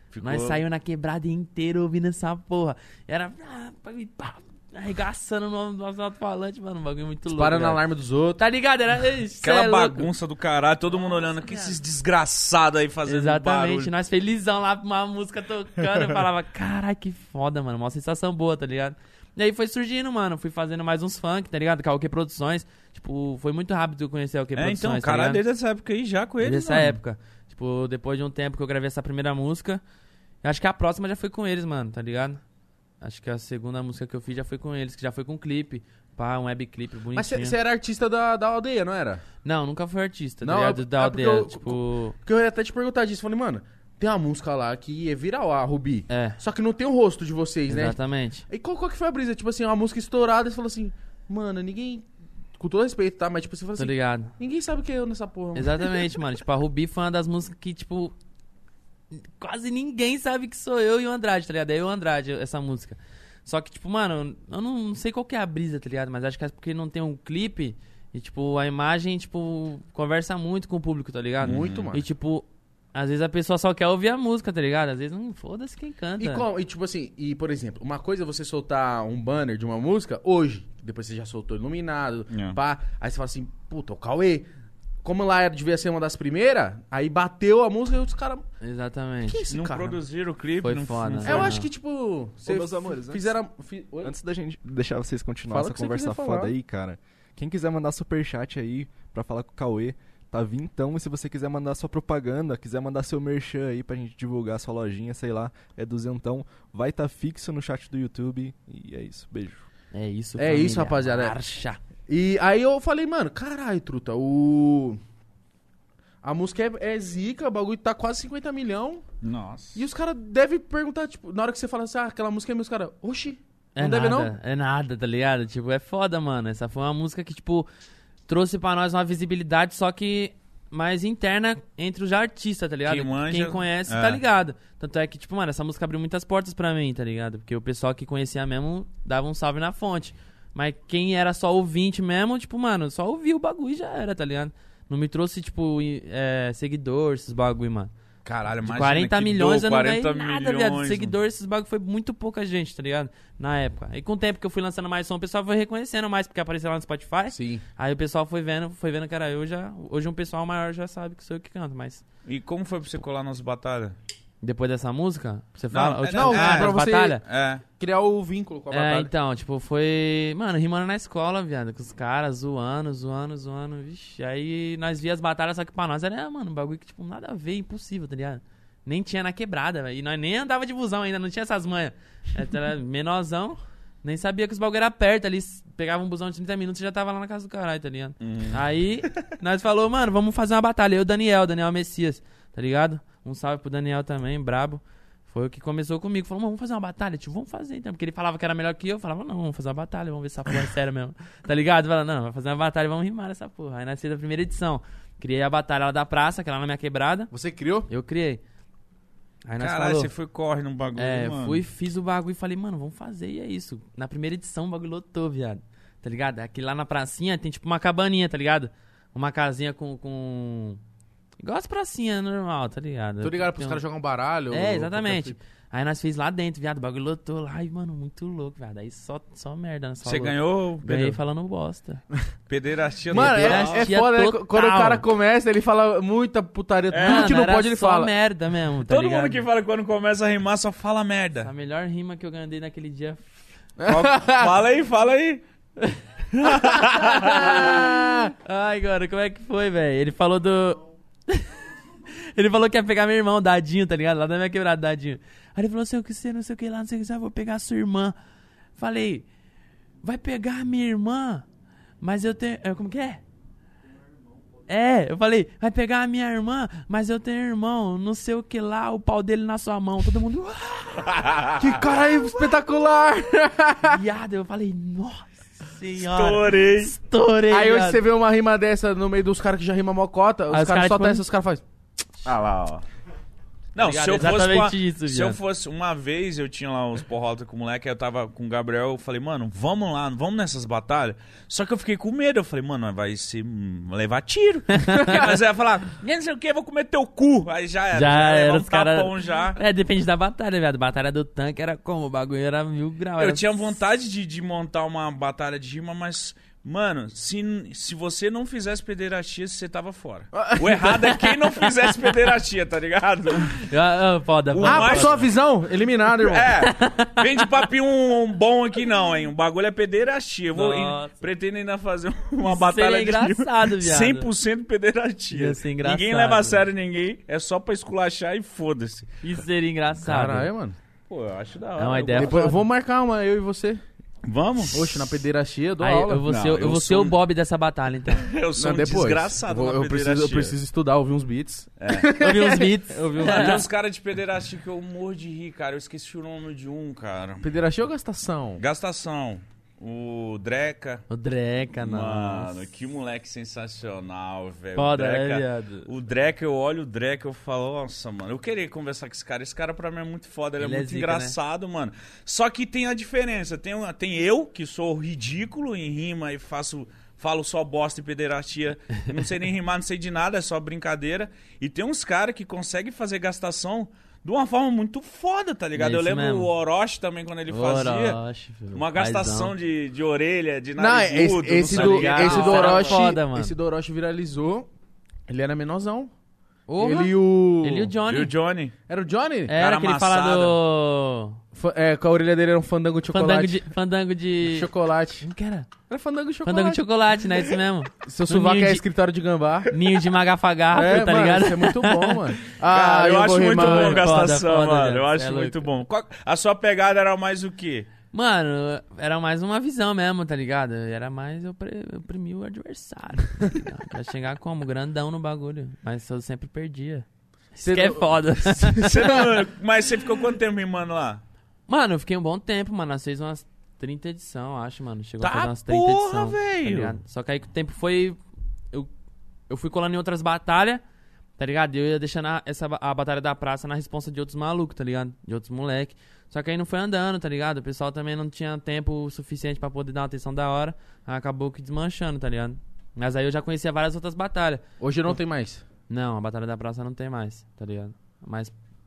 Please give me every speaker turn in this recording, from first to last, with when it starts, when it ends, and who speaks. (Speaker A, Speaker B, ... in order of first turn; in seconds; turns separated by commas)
Speaker A: 0.1-0.6, Speaker B: 0.2-7.8, Speaker C: 7.3-8.4, Speaker B: 8.4-10.1, Speaker A: 9.4-13.9, Speaker B: 11.1-11.8, Speaker B: 13.1-25.4, Speaker A: 24.6-27.0, Speaker B: 26.4-29.8, Speaker B: 30.4-32.4, Speaker B: 33.0-37.5, Speaker C: 37.1-39.2, Speaker B: 39.4-42.2, Speaker C: 40.4-52.0, Speaker B: 46.1-46.4, Speaker B: 47.7-48.5, Speaker C: 52.6-56.1, Speaker B: 53.8-54.3, Speaker B: 55.5-58.1, Speaker B: 59.1-76.5, Speaker C: 71.4-72.1, Speaker A: 71.4-71.9, Speaker C: 76.2-84.5, Speaker A: 82.3-82.6, Speaker C: 85.0-88.4, Speaker B: 88.6-89.4, Speaker C: 89.3-90.0, Speaker A: 89.5-91.5, Speaker B: 90.6-91.7, Speaker C: 91.2-94.1, Speaker D: 92.4-93.3, Speaker D: 94.0-109.6, Speaker C: 95.5-96.5, Speaker B: 109.9-111.8, Speaker C: 110.4-111.4, Speaker C: 112.1-115.0, Speaker C: 116.2-119.0, Speaker A: 119.2-119.8, Speaker C: 119.8-124.3, Speaker B: 123.8-127.7, Speaker B: 128.3-147.9, Speaker A: 132.9-134.2, Speaker A: 148.2-151.2, Speaker B: 148.7-162.0, Speaker C: 157.3-157.6, Speaker A: 162.3-164.0, Speaker B: 164.4-167.2, Speaker A: 165.7-167.6, Speaker C: 166.1-167.2, Speaker C: 167.8-169.1, Speaker B: 168.7-207.3, Speaker A: 188.2-188.6, Speaker C: 207.3-207.9, Speaker B: 207.9-208.4, Speaker B: 209.5-210.1, Speaker A: 209.6-211.6, Speaker B: 211.0-220.8, Speaker B: 221.4-223.8, Speaker C: 223.2-225.4, Speaker B: 224.5-232.0, Speaker A: 230.1-231.2, Speaker A: 232.5-233.9, Speaker C: 233.1-238.1, Speaker B: 233.1-235.0, Speaker A: 236.9-237.4, Speaker B: 237.0-239.4, Speaker A: 238.9-241.5, Speaker B: 241.4-243.3, Speaker C: 243.8-244.5, Speaker A: 243.9-245.4, Speaker A: 246.4-247.5, Speaker B: 246.5-251.5, Speaker C: 247.2-248.3, Speaker B: 252.1-258.1, Speaker B: 258.8-259.3, Speaker B: 260.0-261.4, Speaker B: 262.0-263.2, Speaker B: 264.7-271.5, Speaker A: 271.1-271.7, Speaker C: 271.6-274.0, Speaker B: 273.9-278.0, Speaker A: 276.0-276.9, Speaker C: 277.5-281.6, Speaker B: 280.5-281.2, Speaker A: 282.2-282.8, Speaker A: 283.8-299.6, Speaker B: 283.8-285.4, Speaker B: 294.7-295.3, Speaker B: 297.9-303.8, Speaker A: 303.2-313.6, Speaker C: 310.3-311.2, Speaker B: 313.5-315.2, Speaker A: 314.5-315.3, Speaker C: 314.6-316.5, Speaker A: 316.2-329.1, Speaker B: 316.6-317.2, Speaker B: 320.5-321.2, Speaker B: 322.4-324.3, Speaker B: 325.3-326.6, Speaker B: 329.2-330.5, Speaker C: 330.0-330.8, Speaker A: 331.1-332.5, Speaker B: 331.8-332.6, Speaker C: 332.1-333.8, Speaker A: 334.2-335.2, Speaker C: 334.7-336.2, Speaker B: 335.8-338.3, Speaker A: 336.3-337.2, Speaker A: 338.2-340.6, Speaker C: 338.6-343.6, Speaker A: 341.8-342.1, Speaker B: 342.2-343.6, Speaker A: 343.2-347.4, Speaker C: 347.4-348.6, Speaker A: 348.6-351.1, Speaker B: 351.1-352.5, Speaker A: 351.8-378.2, Speaker B: 354.8-355.9, Speaker B: 360.6-361.4, Speaker B: 375.8-376.5, Speaker B: 377.5-379.5, Speaker A: 378.7-383.0, Speaker C: 380.8-384.7, Speaker B: 381.7-383.5, Speaker C: 385.3-386.1, Speaker B: 386.7-388.3, Speaker C: 386.8-387.9, Speaker A: 388.1-388.8, Speaker C: 388.9-389.5, Speaker B: 389.5-391.4, Speaker A: 389.6-390.6, Speaker C: 391.5-393.7, Speaker B: 393.1-395.7, Speaker C: 394.4-395.2, Speaker C: 395.9-396.9, Speaker B: 396.4-398.8, Speaker C: 398.0-399.8, Speaker B: 399.7-402.2, Speaker C: 400.7-404.1, Speaker A: 402.6-407.9, Speaker B: 403.5-405.7, Speaker B: 408.1-419.2, Speaker C: 417.6-419.3, Speaker A: 418.8-421.2, Speaker B: 421.7-428.2, Speaker A: 425.2-427.0, Speaker B: 429.5-430.8, Speaker B: 431.4-445.1, Speaker C: 444.8-445.6, Speaker B: 445.9-448.5